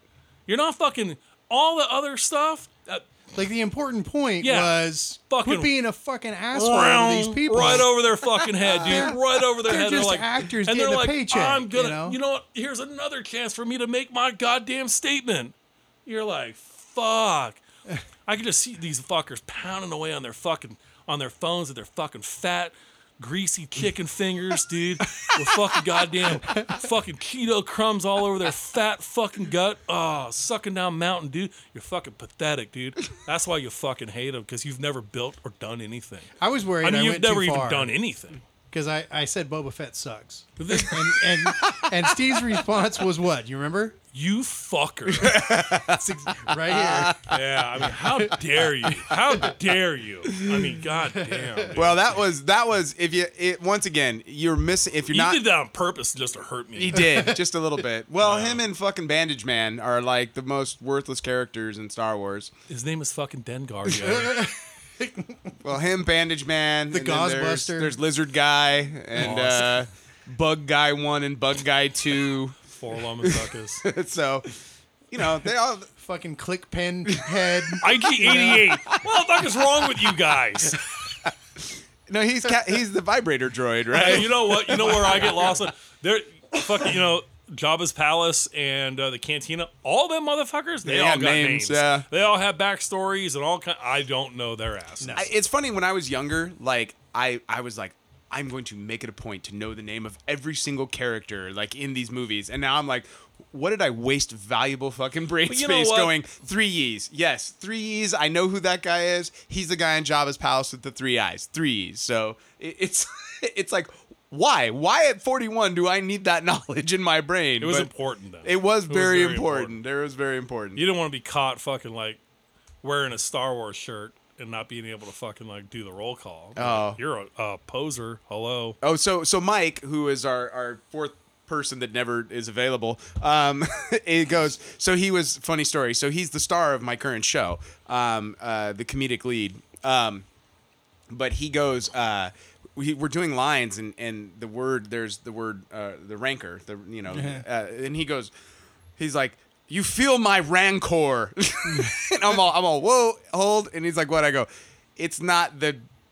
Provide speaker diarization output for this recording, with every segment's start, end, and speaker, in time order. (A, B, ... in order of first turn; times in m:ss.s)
0:00.5-0:03.0 A
0:03.3-0:07.9 B
0:04.4-0:05.7 A
0:06.5-0:15.5 A
0:08.8-0:09.1 C
0:08.8-0:12.2 B
0:16.0-0:17.6 A
0:18.3-0:36.3 A
0:36.4-0:37.9 B
0:36.8-0:38.4 A
0:38.7-0:44.0 B
0:40.6-0:41.1 A
0:41.5-0:41.9 C
0:44.1-0:45.4 A
0:45.1-0:47.4 C
0:45.9-0:47.2 B
0:47.3-0:52.1 A
0:47.9-0:48.4 B
0:50.4-0:50.7 C
0:51.2-0:51.6 B
0:51.7-0:55.4 C
0:55.1-0:57.1 A
0:56.8-1:02.5 C
0:58.2-0:58.6 A
1:02.7-1:04.4 A
1:04.0-1:05.5 B
1:05.6-1:12.6 C
1:06.9-1:07.9 B
1:09.2-1:09.7 A
1:12.7-1:13.9 A
1:13.2-1:14.5 C
1:15.1-1:15.9 C
1:16.0-1:18.6 B
1:17.1-1:17.8 C
1:17.8-1:20.9 A
1:22.1-1:25.6 C
1:23.9-1:35.2 A
1:30.8-1:32.0 C
1:35.0-1:35.3 B
1:35.1-1:57.9 C
1:45.5-1:46.1 A
1:57.6-1:59.8 A
1:58.4-2:00.8 C
2:00.8-2:02.2 A
2:02.8-2:08.8 A
2:06.6-2:07.0 C
2:08.8-2:20.2 C
2:21.1-2:28.3 C
2:27.1-2:27.4 B
2:29.0-2:35.8 C
2:31.7-2:31.9 B